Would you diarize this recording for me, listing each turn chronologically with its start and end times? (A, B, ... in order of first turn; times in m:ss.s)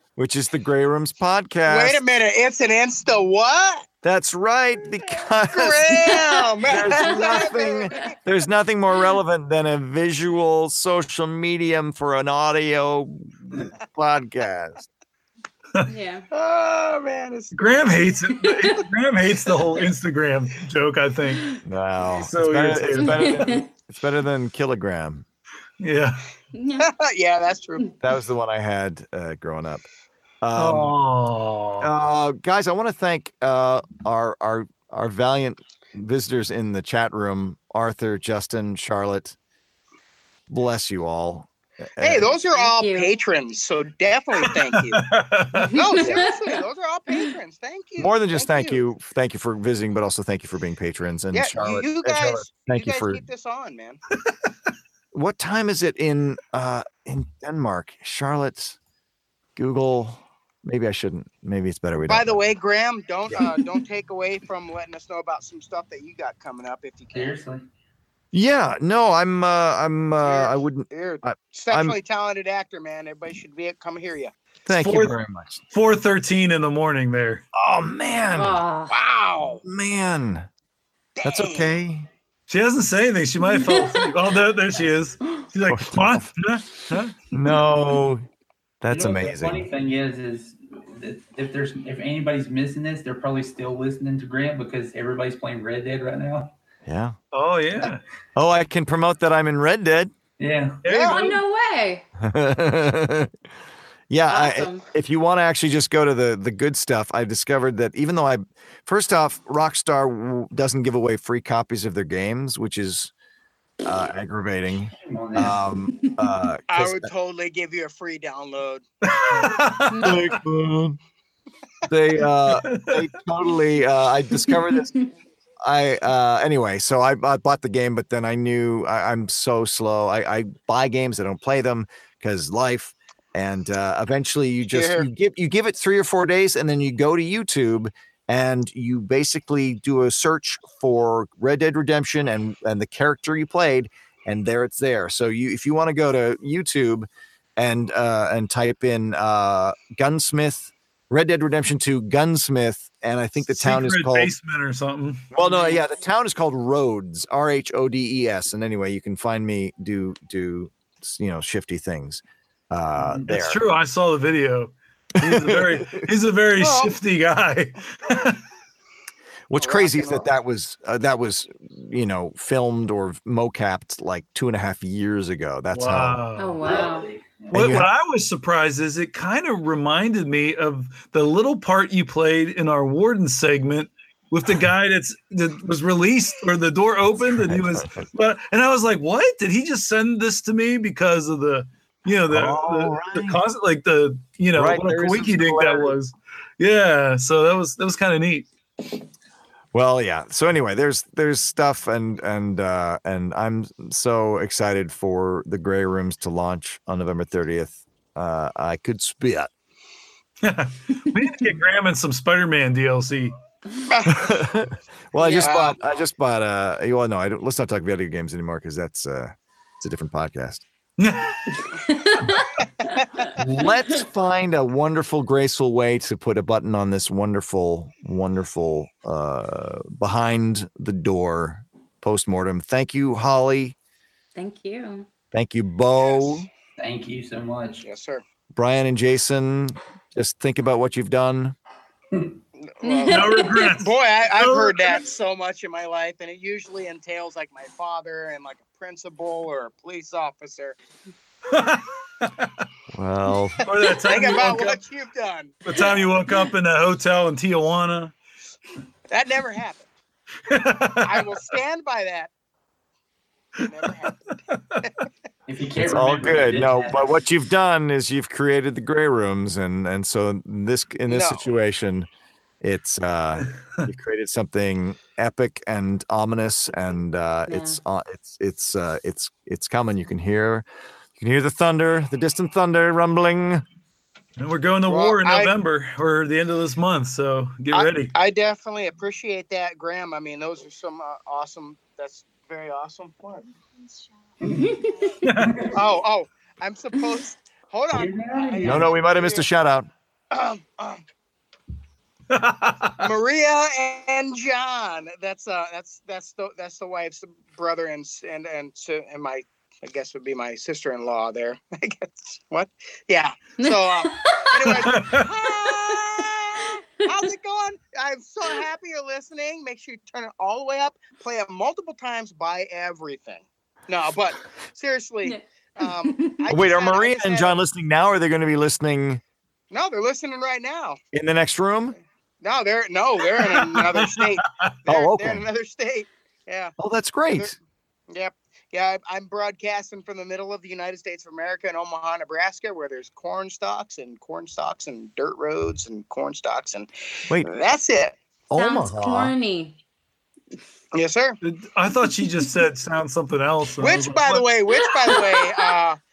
0:00.2-0:02.0 A
0:01.7-0:03.9 B
0:04.0-0:14.9 A
0:05.5-0:08.1 B
0:06.8-0:08.2 C
0:15.9-0:16.3 C
0:16.3-0:17.9 B
0:17.5-0:21.6 D
0:21.6-0:25.2 A
0:22.2-0:23.4 D
0:22.9-0:23.7 C
0:25.8-0:26.3 D
0:26.6-0:26.9 C
0:26.8-0:27.8 B
0:28.0-0:29.9 A
0:30.4-0:30.9 A
0:30.6-0:31.9 D
0:31.8-0:39.4 A
0:40.5-0:42.3 A
0:42.0-0:45.0 B
0:42.4-0:43.1 C
0:44.4-0:45.8 D
0:45.6-0:46.6 C
0:45.7-0:48.8 B
0:48.0-0:53.2 A
0:51.3-0:54.0 B
0:55.1-0:58.8 A
0:59.6-1:02.4 A
1:02.1-1:07.4 B
1:07.1-1:07.6 E
1:08.3-1:12.0 A
1:10.2-1:14.3 B
1:14.7-1:15.6 A
1:14.8-1:15.2 D
1:15.7-1:17.4 D
1:17.6-1:18.6 A
1:18.3-1:18.9 C
1:18.9-1:19.6 B
1:19.6-1:20.5 A
1:21.2-1:21.7 B
1:21.2-1:22.1 A
1:22.5-1:27.2 D
1:23.4-1:24.1 C
1:25.7-1:26.3 A
1:27.3-1:28.3 A
1:28.8-1:29.7 A
1:28.9-1:36.6 E
1:36.9-1:37.2 A
1:37.3-1:38.0 D
1:37.8-1:40.1 A
1:40.4-1:40.8 E
1:40.8-1:41.4 D
1:40.9-1:41.2 B
1:40.9-1:42.0 C
1:42.2-1:43.3 A
1:44.1-1:53.1 A
1:44.3-1:44.8 C
1:53.8-1:57.1 A
1:55.0-1:55.6 E
1:56.7-1:58.9 B
1:59.1-2:00.3 D
1:59.9-2:00.2 C
2:00.0-2:01.0 A
2:01.9-2:04.9 A
2:02.5-2:03.1 D
2:04.6-2:05.1 C
2:05.6-2:34.3 A
2:14.7-2:15.1 B
2:33.5-2:35.3 D
2:35.3-2:43.6 A
2:35.4-2:35.8 C
2:43.0-2:43.2 E
2:43.3-2:48.4 D
2:45.2-2:46.0 A
2:46.6-2:47.0 B
2:49.5-2:56.2 A
2:49.6-2:50.3 B
2:55.7-2:56.8 D
2:56.4-2:57.1 C
2:56.6-2:57.8 E
2:57.5-3:18.5 D
2:57.5-2:57.9 A
3:07.3-3:08.1 A
3:12.3-3:13.4 A
3:14.5-3:15.9 A
3:19.7-3:29.5 A
3:30.4-3:33.4 D
3:33.9-3:34.4 B
3:34.1-3:40.6 A
3:35.2-3:35.7 C
3:35.4-3:35.8 B
3:41.0-3:41.7 D
3:41.6-3:43.0 C
3:43.0-3:43.4 B
3:43.4-3:53.8 A
3:54.4-3:55.1 C
3:55.3-3:56.5 A
3:56.1-3:56.4 B
3:56.8-3:57.9 E
3:57.8-3:58.2 B
3:58.5-4:01.6 A
4:02.6-4:10.8 B
4:02.8-4:03.6 C
4:03.1-4:05.0 D
4:11.5-4:12.5 D
4:12.9-4:13.6 A
4:13.6-4:14.8 D
4:13.8-4:15.6 B
4:15.6-4:18.1 D
4:19.1-4:19.9 B
4:20.5-4:21.4 D
4:21.0-4:22.3 B
4:23.6-4:25.1 B
4:23.6-4:24.9 D
4:25.5-4:27.1 E
4:25.8-4:32.1 A
4:31.1-4:31.4 B
4:32.6-4:40.7 A
4:33.4-4:33.8 D
4:37.5-4:37.8 C
4:41.2-4:43.6 A
4:44.4-4:48.1 D
4:44.9-4:45.5 B
4:47.7-4:53.5 B
4:54.4-4:54.8 E
4:54.5-4:55.2 C
4:55.2-4:55.7 D
4:55.4-4:55.8 E
4:55.7-4:59.5 B
4:57.9-4:59.0 E
4:58.6-4:59.9 A
5:00.3-5:01.0 B
5:02.3-5:03.1 D
5:03.0-5:27.6 B
5:13.6-5:14.8 C
5:14.7-5:15.3 D
5:15.5-5:16.7 C
5:25.2-5:26.4 C
5:26.5-5:29.2 A
5:29.7-5:31.0 B
5:31.1-5:32.0 A
5:32.4-5:36.8 B
5:33.3-5:34.8 D
5:34.9-5:35.4 A
5:36.8-5:37.6 A
5:37.3-5:37.6 B
5:38.1-5:48.2 B
5:47.3-5:47.6 A
5:48.5-5:49.3 A
5:48.6-5:49.8 C
5:50.9-5:51.4 B
5:51.4-5:54.4 D
5:53.8-5:56.0 B
5:55.0-5:55.7 C